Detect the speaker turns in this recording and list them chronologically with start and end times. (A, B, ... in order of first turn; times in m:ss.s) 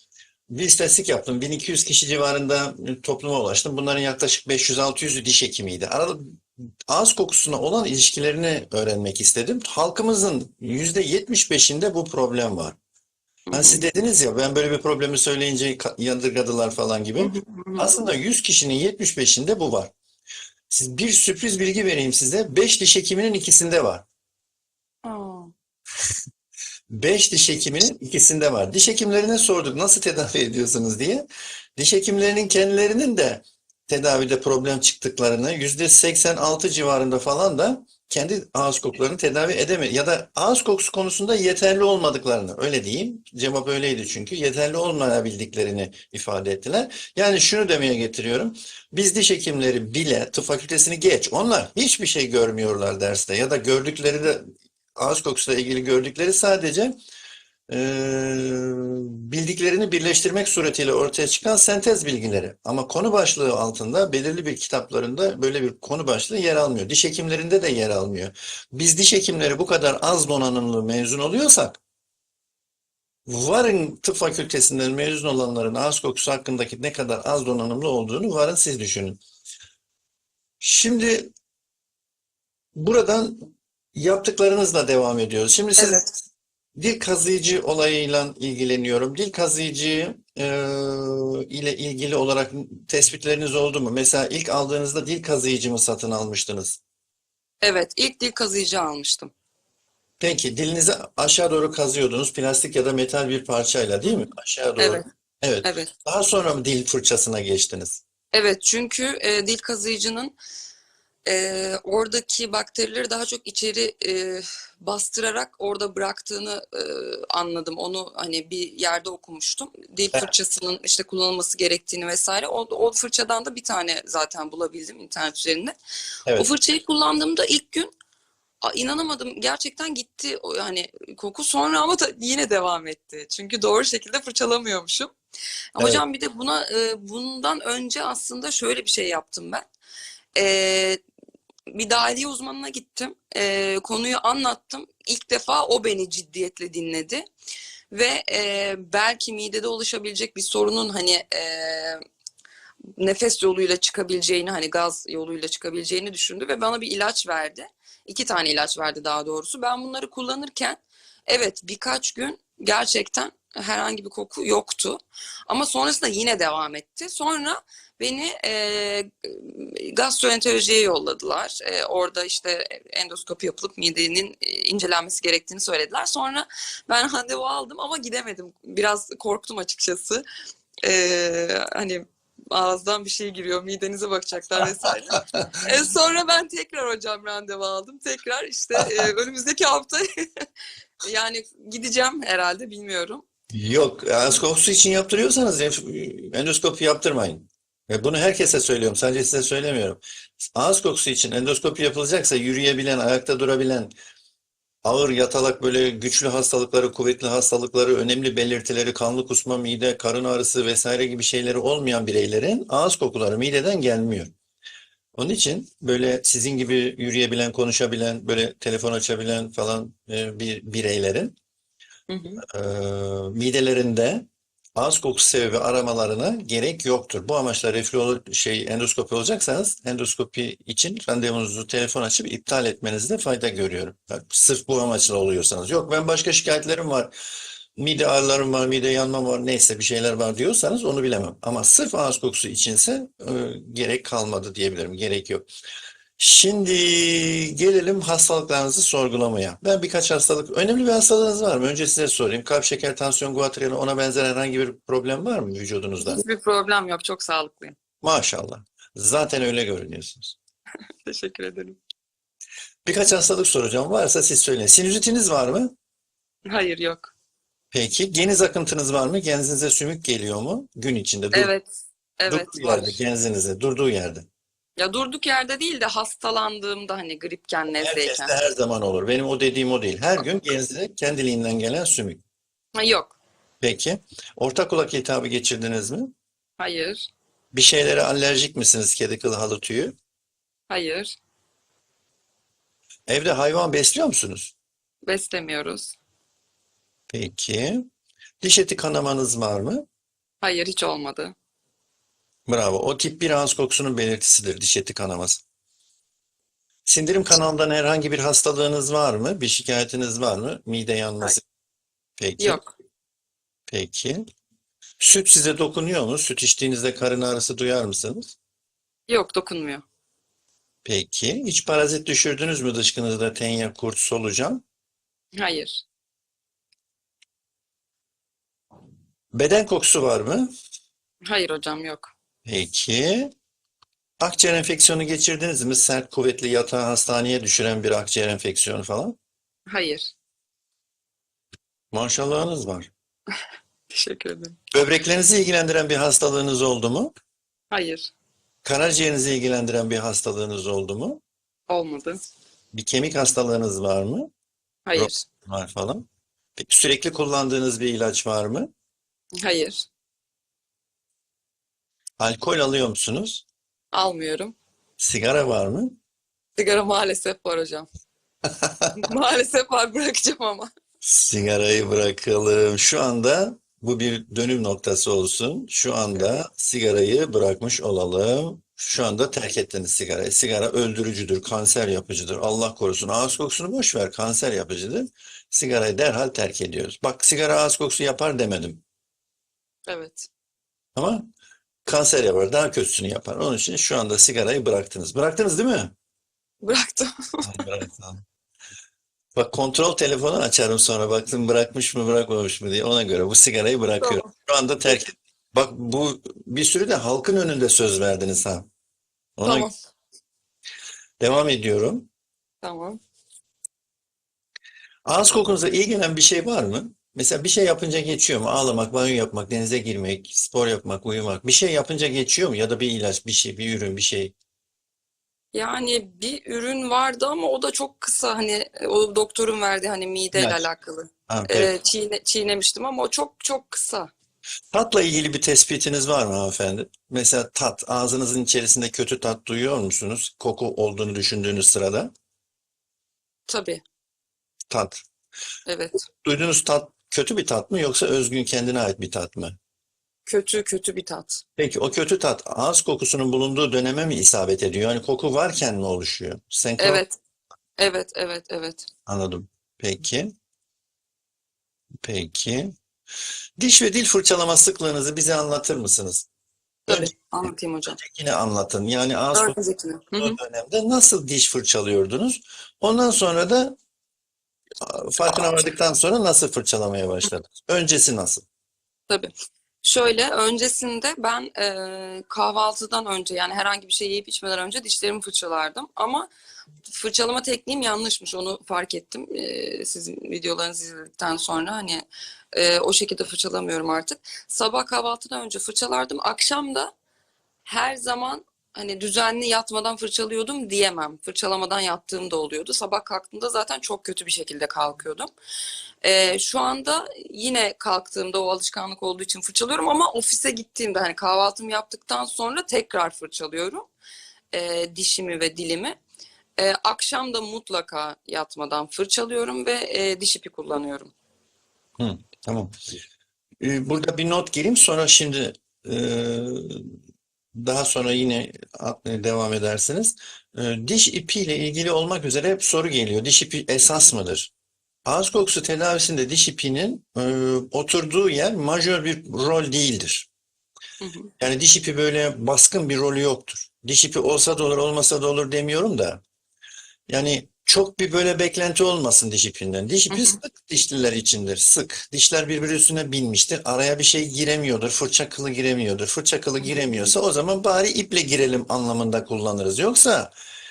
0:00.5-0:12.8 A
0:13.5-0:19.9 A
0:13.5-0:13.8 B
0:17.2-0:18.0 B
0:20.7-0:24.0 A
0:25.0-0:25.5 B
0:26.9-0:31.2 A
0:31.8-0:56.9 A
0:57.7-1:11.8 A
1:13.3-1:19.2 A
1:20.6-1:21.3 A
1:22.8-1:26.0 A
1:25.8-1:26.1 B
1:26.8-1:36.8 A
1:37.6-1:39.3 B
1:40.2-1:48.0 A
1:44.8-1:45.0 B
1:45.6-1:45.9 B
1:48.3-1:50.3 B
1:51.2-2:05.7 B
2:06.4-2:07.9 B
2:08.6-2:15.1 B
2:15.8-2:19.6 B
2:20.3-2:21.0 B
2:21.7-2:27.2 B
2:27.9-2:32.0 B
2:33.0-3:00.2 B
3:00.8-3:10.5 B
3:11.0-3:13.2 B
3:13.5-3:20.0 A
3:20.5-3:23.9 A
3:24.8-3:34.3 A
3:35.2-3:41.4 A
3:42.1-3:42.4 B
3:42.4-3:57.1 A
3:57.8-4:05.4 A
4:06.2-4:16.2 A
4:16.0-4:17.8 B
4:18.0-4:20.4 A
4:21.0-4:21.8 B
4:22.8-4:25.7 A
4:26.4-4:27.1 B
4:27.7-4:31.5 A
4:31.3-4:32.9 B
4:32.3-4:34.3 A
4:34.8-4:38.3 B
4:37.7-4:42.2 A
4:42.7-4:43.2 B
4:43.6-4:46.1 A
4:46.6-4:47.1 B
4:47.5-4:49.9 A
4:50.7-4:51.2 B
4:53.1-4:54.5 A
4:55.0-4:56.0 B
4:57.1-4:57.8 A
4:58.4-4:59.8 A
5:00.4-5:01.3 B
5:02.5-5:05.4 A
5:06.8-5:11.4 A
5:12.2-5:12.6 A
5:12.4-5:12.7 B
5:13.7-5:14.2 A
5:15.0-5:18.3 A
5:19.1-5:19.8 B
5:20.8-5:24.6 A
5:25.3-5:25.8 B
5:29.3-5:30.5 A
5:31.2-5:32.1 B
5:32.4-5:33.3 A
5:34.2-5:39.2 A
5:39.7-5:40.1 B
5:41.9-5:42.9 A
5:43.9-5:44.6 B
5:44.7-5:47.1 A
5:47.7-5:48.1 B
5:48.6-5:51.2 A
5:51.7-5:52.2 B
5:52.7-5:54.3 A
5:54.8-5:55.2 B
5:54.9-5:56.0 A
5:56.6-5:58.7 A
5:59.4-5:59.8 B
6:02.2-6:03.4 A
6:03.9-6:04.5 B
6:05.0-6:06.0 A
6:06.6-6:07.9 B
6:08.6-6:08.9 A
6:09.0-6:10.7 B
6:11.0-6:28.8 A
6:29.9-6:30.3 B
6:30.9-6:31.2 A
6:31.8-6:35.9 A
6:36.6-6:37.6 B
6:37.4-6:38.2 A
6:39.4-6:48.7 A
6:44.0-6:44.3 B
6:49.4-6:49.7 A
6:49.4-6:49.8 B
6:51.2-6:52.1 A
6:52.6-6:53.0 B
6:55.0-7:04.3 A
7:05.5-7:14.1 B
7:10.3-7:10.6 A
7:11.3-7:11.7 A
7:14.7-7:22.1 A
7:23.5-7:23.8 B
7:24.7-7:25.0 A
7:25.6-7:26.0 B
7:26.2-7:29.6 A
7:30.2-7:31.4 B
7:31.6-7:37.0 A
7:36.8-7:37.1 B
7:37.8-7:38.9 B
7:39.1-7:40.3 A
7:42.0-7:42.7 A
7:43.6-7:46.2 A
7:46.9-7:48.0 B
7:46.9-7:47.1 A
7:47.9-7:49.6 A
7:49.3-7:50.4 B
7:50.2-7:53.8 A
7:54.8-7:58.4 A
7:59.8-8:06.3 B
8:06.9-8:16.9 B
8:17.6-8:25.3 B
8:26.0-8:33.9 B
8:34.5-8:36.0 B
8:36.6-8:41.1 B
8:42.0-8:42.7 A
8:43.6-8:47.0 A
8:47.6-8:54.5 A
8:55.0-9:00.3 A
9:01.0-9:01.3 B
9:01.4-9:06.2 A
9:07.1-9:20.3 A
9:10.1-9:10.4 B
9:16.7-9:17.0 B